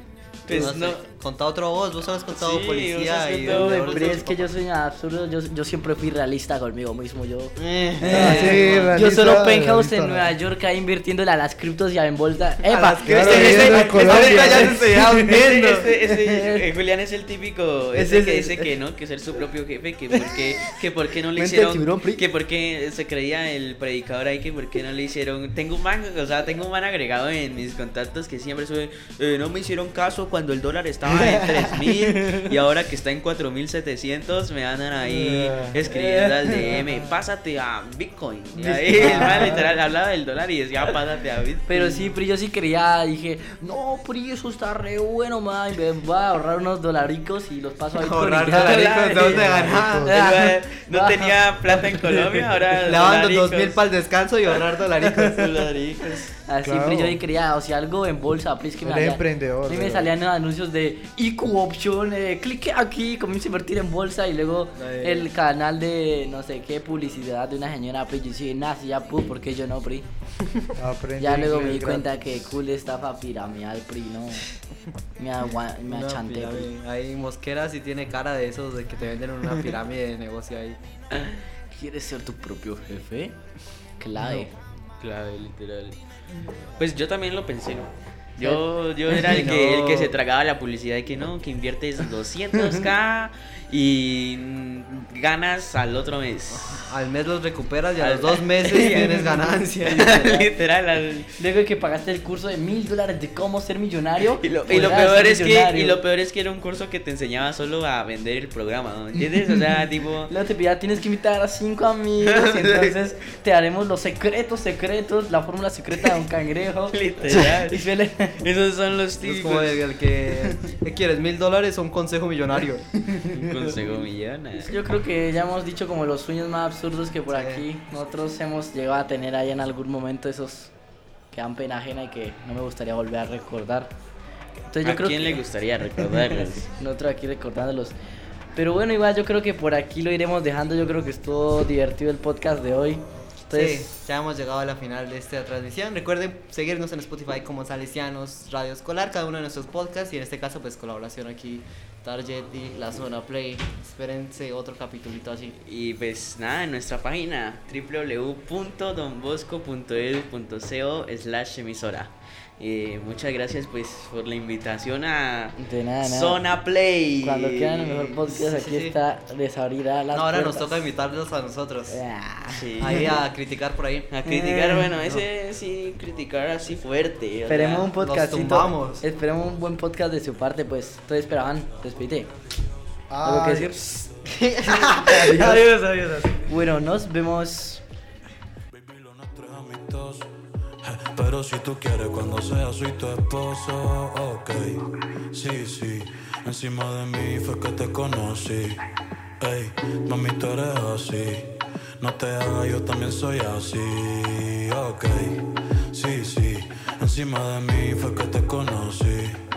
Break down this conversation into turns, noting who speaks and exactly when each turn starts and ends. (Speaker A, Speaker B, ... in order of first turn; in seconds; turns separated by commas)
Speaker A: 0.5-1.0, Speaker B: 0.5-4.5, Speaker A: 2.3-4.2, Speaker C: 3.4-15.3, Speaker B: 7.6-8.9, Speaker A: 8.0-8.9, Speaker D: 8.0-10.3, Speaker B: 12.6-15.9, Speaker D: 13.1-14.7, Speaker A: 13.2-42.1, Speaker C: 16.0-16.6, Speaker C: 17.9-18.7, Speaker C: 20.1-20.4, Speaker C: 21.3-22.2, Speaker C: 31.1-32.5, Speaker D: 35.0-35.8, Speaker C: 35.8-36.8, Speaker C: 38.5-39.7, Speaker D: 39.0-39.6, Speaker C: 41.7-49.2, Speaker B: 47.9-50.1, Speaker A: 48.4-49.5, Speaker D: 49.3-50.2, Speaker C: 50.0-52.4, Speaker A: 50.0-53.8, Speaker B: 52.8-55.4, Speaker A: 55.2-56.3, Speaker C: 56.5-70.0, Speaker D: 56.6-57.2, Speaker D: 58.8-60.1, Speaker B: 64.8-65.3, Speaker D: 70.8-72.1, Speaker C: 71.2-74.5, Speaker C: 75.2-76.7, Speaker B: 75.9-80.8, Speaker C: 81.7-83.3, Speaker C: 84.0-84.5, Speaker D: 84.2-84.5, Speaker A: 85.0-86.0, Speaker A: 86.8-96.9, Speaker B: 89.2-90.2, Speaker B: 96.5-100.2, Speaker A: 98.0-101.3, Speaker C: 100.2-100.5, Speaker C: 101.4-106.0, Speaker A: 104.4-110.3, Speaker C: 110.3-118.4, Speaker A: 112.2-112.9, Speaker A: 116.9-117.9, Speaker A: 118.4-119.9, Speaker B: 119.2-122.8, Speaker C: 123.0-123.7, Speaker A: 123.3-124.8, Speaker C: 124.6-130.7, Speaker B: 127.3-127.6, Speaker C: 131.3-133.9, Speaker C: 134.7-135.4, Speaker A: 134.8-136.7, Speaker C: 135.9-137.9, Speaker C: 138.5-143.9, Speaker B: 143.5-155.6, Speaker A: 155.6-168.2, Speaker C: 165.6-166.4, Speaker C: 167.2-170.8, Speaker B: 168.2-169.0, Speaker B: 170.1-172.0, Speaker C: 171.9-172.7, Speaker A: 172.5-173.2, Speaker B: 172.8-174.1, Speaker A: 174.1-177.9, Speaker C: 174.2-174.9, Speaker C: 177.5-182.3, Speaker B: 177.9-179.0, Speaker D: 183.1-183.8, Speaker C: 183.2-183.9, Speaker B: 184.2-186.2, Speaker D: 184.8-186.3, Speaker C: 184.8-185.7, Speaker C: 186.4-187.8, Speaker E: 188.8-190.3, Speaker E: 190.8-194.8, Speaker E: 195.3-198.8, Speaker E: 199.4-209.4